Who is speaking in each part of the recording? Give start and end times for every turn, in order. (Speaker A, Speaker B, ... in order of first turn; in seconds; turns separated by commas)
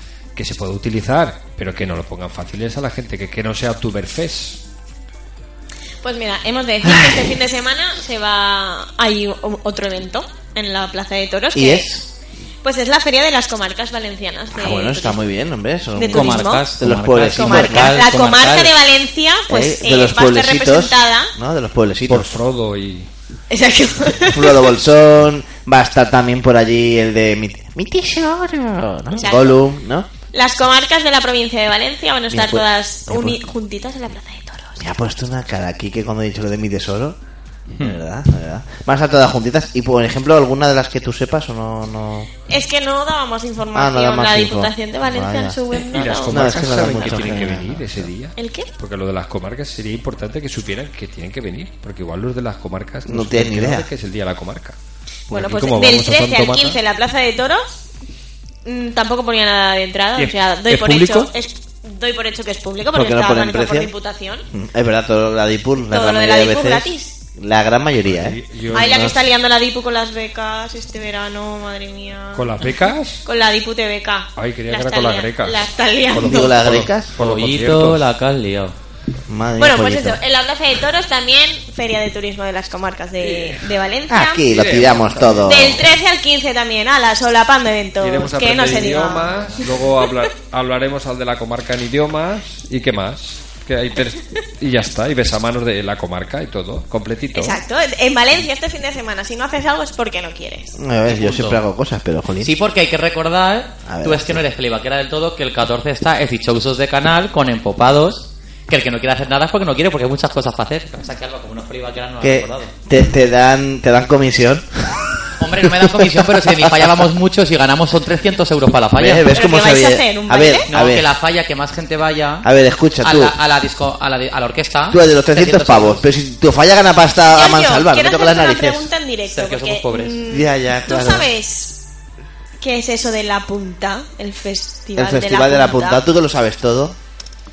Speaker A: 0.3-4.6, Speaker B: 6.0-11.9, Speaker C: 6.8-7.3, Speaker C: 11.5-12.1, Speaker B: 12.6-15.2, Speaker C: 14.5-18.0, Speaker B: 16.0-16.6, Speaker D: 16.0-18.7, Speaker B: 17.4-21.3, Speaker C: 19.5-22.3, Speaker A: 22.1-23.1, Speaker B: 23.5-24.6, Speaker C: 24.3-30.1, Speaker B: 29.2-29.6, Speaker B: 30.3-34.8, Speaker C: 32.3-33.4, Speaker C: 34.8-37.2, Speaker D: 37.7-38.0, Speaker C: 37.8-42.3, Speaker B: 42.5-47.5, Speaker C: 43.7-45.6, Speaker A: 45.7-54.8, Speaker C: 46.2-48.1, Speaker B: 48.4-48.7, Speaker C: 53.1-53.9, Speaker A: 55.3-56.8, Speaker B: 55.3-57.8, Speaker B: 58.6-64.5, Speaker A: 60.2-61.3, Speaker C: 62.9-63.9, Speaker C: 64.5-69.0, Speaker B: 65.9-67.1, Speaker A: 68.0-69.2, Speaker B: 68.7-72.5, Speaker A: 72.3-73.2, Speaker B: 73.2-76.7, Speaker A: 74.4-78.1, Speaker C: 76.2-77.1, Speaker D: 77.2-78.8, Speaker C: 79.3-80.2, Speaker B: 79.6-84.5, Speaker A: 83.2-83.7, Speaker C: 84.1-85.8, Speaker A: 84.5-85.9, Speaker B: 85.4-89.3, Speaker A: 88.0-97.6, Speaker B: 97.3-100.8, Speaker C: 100.8-102.5, Speaker D: 101.1-101.6, Speaker D: 102.4-112.7, Speaker C: 103.9-104.4, Speaker C: 112.2-116.3, Speaker D: 115.4-119.2, Speaker C: 119.0-121.1, Speaker B: 119.3-120.7, Speaker D: 120.7-122.5, Speaker C: 122.4-123.3, Speaker D: 123.0-126.1, Speaker C: 124.9-128.9, Speaker B: 127.3-131.8, Speaker D: 129.3-130.2, Speaker C: 130.3-131.3, Speaker B: 132.6-136.0, Speaker C: 135.0-137.0